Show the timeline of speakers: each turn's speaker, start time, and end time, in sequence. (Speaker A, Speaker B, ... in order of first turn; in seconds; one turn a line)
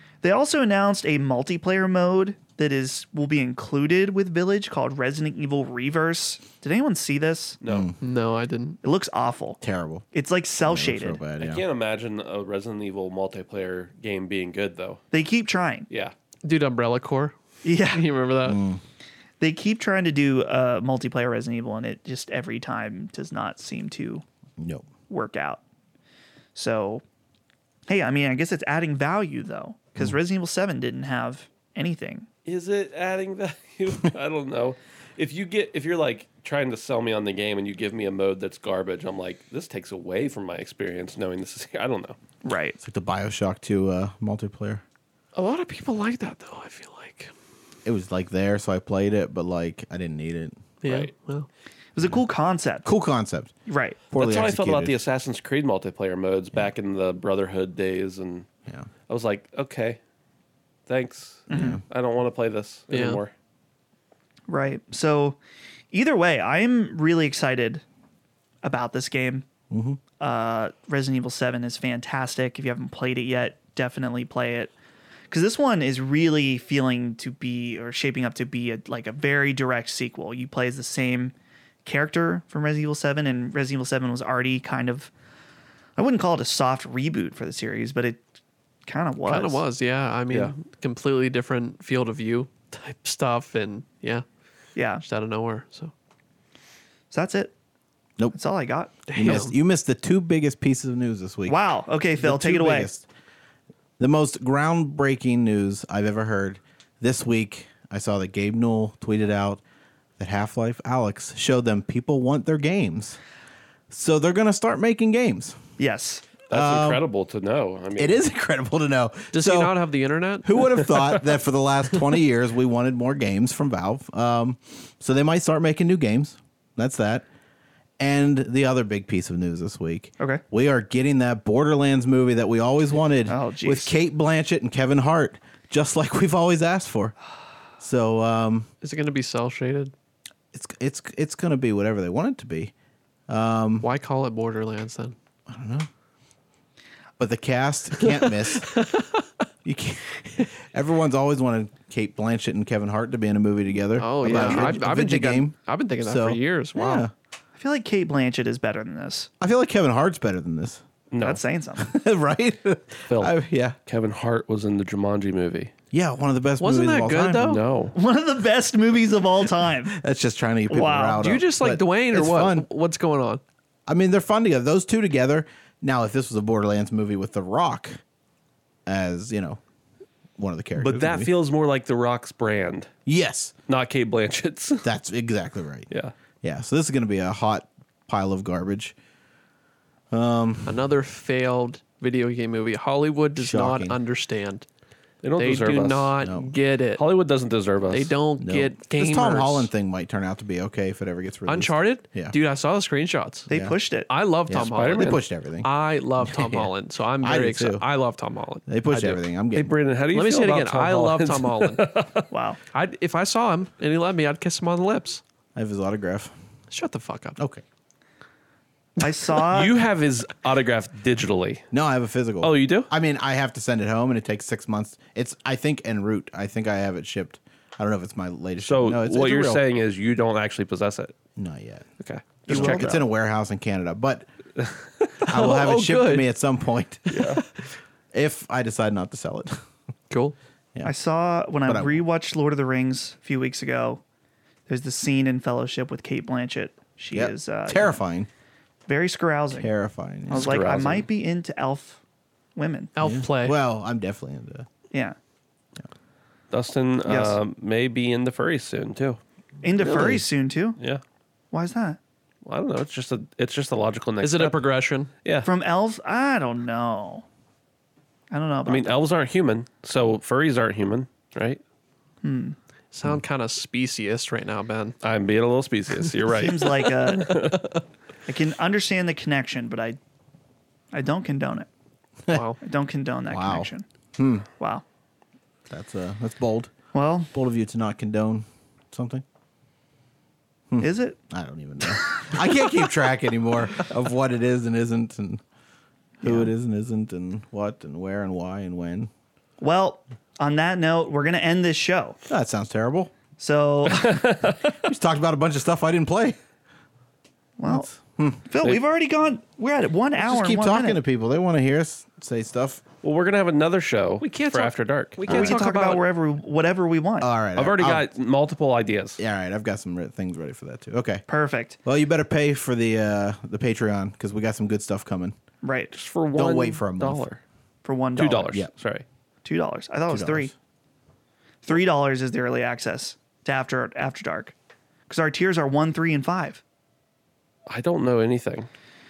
Speaker A: 0.2-7.6
Speaker B: 7.6-7.9
Speaker C: 7.7-8.0
Speaker D: 8.0-8.8
Speaker A: 8.8-9.6
Speaker C: 9.6-10.1
Speaker A: 10.1-11.2
Speaker C: 10.7-11.6
Speaker B: 11.4-15.0
Speaker A: 15.1-15.9
Speaker B: 15.9-16.1
Speaker D: 16.4-18.6
Speaker A: 17.6-18.1
Speaker C: 18.4-18.8
Speaker A: 19.4-24.2
Speaker C: 24.6-24.9
Speaker A: 25.1-25.6
Speaker A: 26.6-27.0
Speaker A: 27.9-32.3
Speaker B: 32.5-42.2
Speaker A: 42.4-42.8
Speaker C: 42.8-44.8
Speaker D: 45.4-47.3
Speaker C: 47.9-50.6
Speaker D: 50.8-51.5
Speaker B: 50.9-51.1
Speaker A: 52.0-52.9
Speaker C: 52.9-53.5
Speaker A: 53.7-54.0
Speaker B: 54.1-58.5
Speaker C: 54.1-55.0
Speaker B: 59.1-60.0
Speaker B: 60.9-63.3
Speaker A: 61.5-61.8
Speaker C: 61.5-61.8
Speaker D: 62.9-63.2
Speaker A: 64.5-65.4
Speaker A: 65.9-67.8
Speaker A: 68.6-69.5
Speaker C: 69.7-70.0
Speaker A: 70.2-74.7
Speaker A: 75.3-81.3
Speaker A: 81.8-85.1
Speaker A: 86.0-88.2
Speaker A: 88.9-89.6
Speaker D: 89.3-94.2
Speaker A: 94.8-95.0
Speaker D: 95.0-95.9
Speaker A: 97.1-97.5
Speaker A: 98.3-99.3
Speaker D: 99.1-99.5
Speaker C: 99.1-101.6
Speaker A: 101.5-102.9
Speaker C: 102.2-103.1
Speaker C: 104.0-109.6
Speaker C: 110.2-113.2
Speaker C: 113.9-115.6
Speaker A: 115.8-116.3
Speaker B: 116.5-118.2
Speaker C: 116.5-117.0
Speaker C: 118.0-119.8
Speaker D: 119.3-121.1
Speaker C: 120.4-127.3
Speaker C: 128.0-137.2
Speaker A: 133.3-133.9
Speaker C: 137.8-138.7
Speaker D: 138.8-139.9
Speaker C: 140.5-142.7
Speaker C: 143.3-143.9
Speaker D: 143.8-145.2
Speaker C: 145.5-145.9
Speaker C: 147.2-148.7
Speaker D: 148.0-149.2
Speaker C: 149.7-157.1
Speaker D: 154.0-157.1
Speaker A: 154.2-154.8
Speaker A: 157.6-159.3
Speaker C: 159.4-160.8
Speaker B: 161.1-161.4
Speaker A: 161.2-161.9
Speaker C: 161.8-163.8
Speaker B: 163.1-165.7
Speaker C: 165.9-167.6
Speaker D: 166.6-167.6
Speaker B: 167.4-168.0
Speaker A: 167.9-169.9
Speaker C: 169.9-172.7
Speaker A: 170.7-171.3
Speaker D: 171.2-173.4
Speaker C: 173.9-178.0
Speaker C: 178.9-179.6
Speaker C: 180.4-181.3
Speaker B: 180.8-182.9
Speaker C: 183.1-183.5
Speaker B: 183.7-184.9
Speaker C: 184.8-185.9
Speaker C: 186.4-188.9
Speaker C: 190.1-190.9
Speaker D: 190.7-194.7
Speaker C: 193.4-194.0
Speaker B: 195.2-196.1
Speaker D: 195.4-197.0
Speaker C: 196.2-196.5
Speaker B: 197.0-198.1
Speaker D: 197.9-199.7
Speaker C: 198.4-202.3
Speaker D: 201.5-203.5
Speaker C: 203.5-203.8
Speaker A: 203.5-204.1
Speaker D: 204.1-209.2
Speaker C: 204.5-207.8
Speaker B: 204.5-205.2
Speaker C: 208.7-209.8
Speaker B: 209.6-212.3
Speaker D: 210.1-211.9
Speaker A: 212.3-212.6
Speaker D: 212.7-215.2
Speaker C: 215.6-216.3
Speaker D: 216.7-217.4
Speaker A: 219.0-219.8
Speaker B: 219.5-221.6
Speaker C: 221.7-229.6
Speaker B: 222.4-222.9
Speaker B: 228.6-231.2
Speaker C: 231.4-231.9
Speaker B: 232.0-232.9
Speaker A: 232.5-233.0
Speaker C: 232.5-234.3
Speaker D: 235.2-236.3
Speaker C: 235.3-237.2
Speaker D: 237.1-237.4
Speaker B: 237.1-237.4
Speaker C: 238.1-239.6
Speaker D: 240.1-240.4
Speaker A: 240.8-244.0
Speaker C: 241.7-242.0
Speaker A: 244.7-248.0
Speaker C: 247.1-248.3
Speaker A: 248.9-249.7
Speaker C: 249.5-250.8
Speaker A: 250.3-252.0
Speaker B: 250.3-251.1
Speaker A: 252.6-252.9
Speaker D: 252.9-253.6
Speaker C: 253.0-254.7
Speaker B: 256.5-259.2
Speaker A: 257.1-257.4
Speaker A: 259.6-260.8
Speaker C: 259.8-260.2
Speaker A: 261.5-262.0
Speaker B: 262.5-264.6
Speaker D: 264.2-265.1
Speaker A: 265.4-267.2
Speaker A: 268.3-268.9
Speaker B: 268.7-271.6
Speaker A: 272.2-272.6
Speaker D: 272.9-275.0
Speaker B: 275.0-277.7
Speaker A: 276.3-277.4
Speaker D: 276.9-277.8
Speaker A: 278.3-280.0
Speaker A: 280.9-281.7
Speaker D: 282.3-282.6
Speaker A: 282.6-283.9
Speaker C: 283.3-284.5
Speaker A: 284.6-284.8
Speaker C: 285.7-286.7
Speaker A: 286.9-287.3
Speaker C: 287.3-289.2
Speaker C: 290.7-295.4
Speaker A: 290.8-291.2
Speaker A: 291.9-292.2
Speaker A: 296.2-296.5
Speaker C: 296.2-299.1
Speaker A: 299.6-302.2
Speaker C: 302.3-303.1
Speaker A: 303.4-304.2
Speaker B: 303.9-304.8
Speaker C: 304.8-306.4
Speaker A: 307.6-307.9
Speaker C: 307.7-308.4
Speaker A: 308.4-311.0
Speaker C: 310.2-312.8
Speaker B: 313.0-315.6
Speaker D: 314.2-316.0
Speaker A: 315.2-317.3
Speaker C: 317.2-318.1
Speaker B: 317.6-319.2
Speaker C: 319.2-321.2
Speaker A: 321.3-321.8
Speaker C: 321.8-325.4
Speaker A: 325.6-325.9
Speaker B: 325.9-327.4
Speaker C: 326.4-327.3
Speaker A: 327.9-328.6
Speaker B: 328.2-329.1
Speaker A: 329.4-330.5
Speaker C: 330.1-330.5
Speaker A: 331.6-334.5
Speaker A: 335.1-336.6
Speaker B: 337.7-338.7